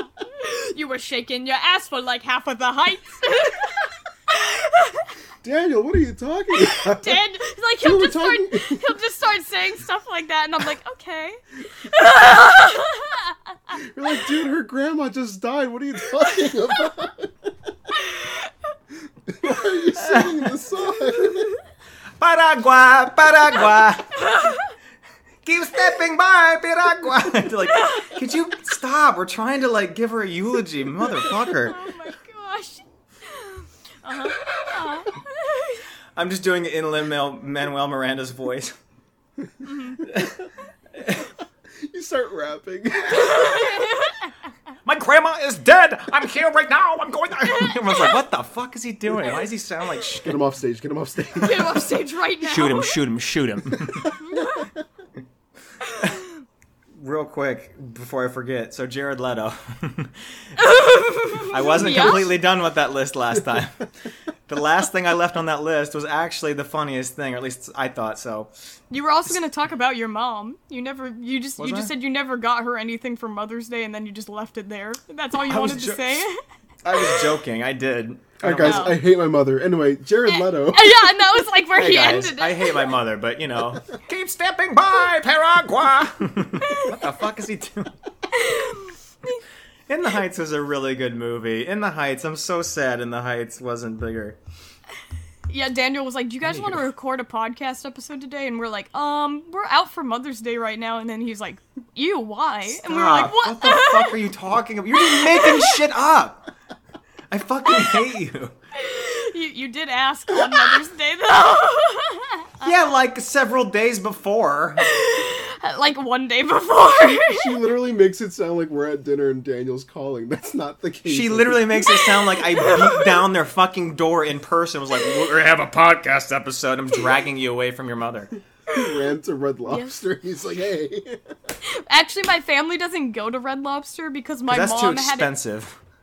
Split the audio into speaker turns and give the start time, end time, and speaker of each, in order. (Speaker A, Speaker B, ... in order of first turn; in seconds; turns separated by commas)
Speaker A: 0.3-5.1, Speaker B: 5.4-7.2, Speaker A: 6.6-13.8, Speaker B: 7.8-8.9, Speaker B: 13.7-17.5, Speaker A: 17.9-18.7, Speaker B: 19.3-21.6, Speaker C: 20.0-20.5, Speaker C: 22.2-24.3, Speaker A: 24.2-24.7, Speaker C: 25.4-31.8, Speaker A: 27.7-28.1, Speaker A: 31.2-35.9, Speaker C: 36.2-38.7, Speaker A: 39.6-40.0, Speaker C: 40.0-40.5, Speaker C: 41.0-41.3, Speaker B: 41.8-43.9, Speaker A: 43.1-44.3, Speaker C: 44.9-50.4, Speaker A: 47.5-48.1, Speaker B: 50.2-51.8, Speaker A: 51.4-53.0, Speaker C: 52.4-54.1, Speaker A: 54.1-54.5, Speaker B: 54.3-54.8, Speaker A: 55.9-56.3, Speaker C: 57.0-60.5, Speaker A: 60.6-62.3, Speaker C: 61.5-63.9, Speaker C: 64.5-68.5, Speaker A: 68.9-76.3, Speaker C: 71.6-71.9, Speaker C: 75.5-76.3, Speaker C: 76.8-78.9, Speaker A: 76.9-77.2, Speaker B: 78.4-81.1, Speaker A: 78.6-79.0, Speaker A: 80.3-82.9, Speaker C: 81.8-87.9, Speaker A: 86.6-86.9, Speaker A: 88.3-89.4, Speaker C: 89.9-94.4, Speaker A: 95.5-104.2, Speaker C: 96.5-96.8, Speaker C: 102.7-106.5, Speaker A: 104.9-105.8, Speaker C: 107.3-108.5, Speaker A: 107.7-108.0, Speaker A: 108.8-112.7, Speaker C: 112.6-114.9, Speaker A: 114.8-117.6, Speaker B: 117.3-121.8, Speaker C: 121.1-128.3, Speaker A: 121.9-123.2, Speaker B: 128.7-131.4, Speaker A: 129.7-130.0, Speaker A: 131.7-135.3, Speaker C: 134.5-135.8